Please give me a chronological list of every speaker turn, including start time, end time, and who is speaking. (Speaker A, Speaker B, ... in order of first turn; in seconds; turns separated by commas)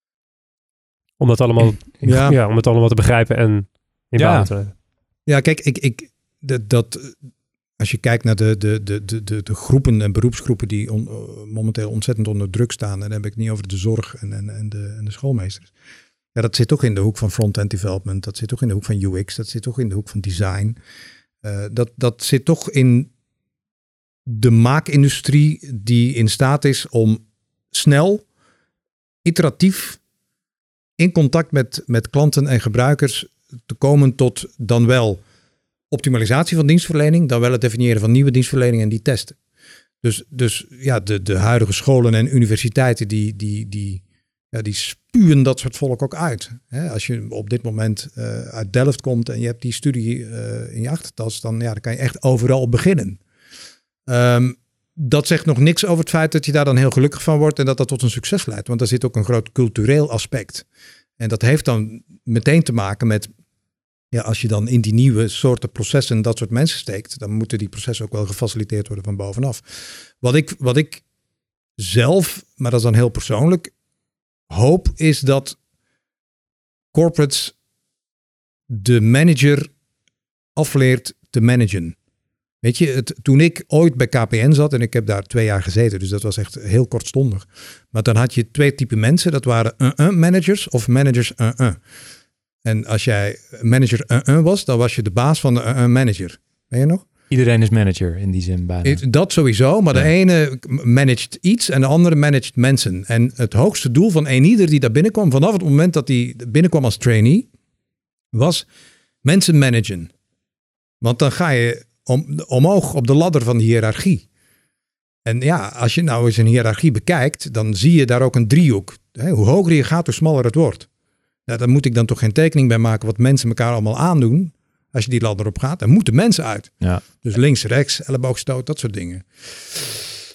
Speaker A: 1.2-4.7, Speaker B: 2.0-2.4, Speaker C: 4.2-4.5, Speaker B: 5.3-7.2, Speaker B: 7.8-15.7, Speaker B: 16.4-20.8, Speaker B: 21.4-23.1, Speaker B: 24.3-28.2, Speaker B: 29.2-30.0, Speaker B: 31.0-35.2, Speaker B: 35.9-39.4, Speaker B: 40.0-53.2, Speaker B: 54.1-60.6, Speaker B: 61.2-63.3, Speaker B: 64.1-69.6, Speaker B: 70.2-71.0, Speaker B: 71.8-73.7, Speaker B: 74.5-75.6, Speaker B: 76.9-77.5, Speaker B: 78.7-79.7, Speaker B: 80.6-82.0, Speaker B: 82.6-91.8, Speaker B: 92.7-97.0, Speaker C: 97.3-99.0, Speaker B: 98.8-107.5, Speaker B: 108.3-108.7, Speaker B: 109.2-110.1, Speaker B: 111.0-114.2, Speaker B: 115.2-120.9, Speaker B: 121.5-130.0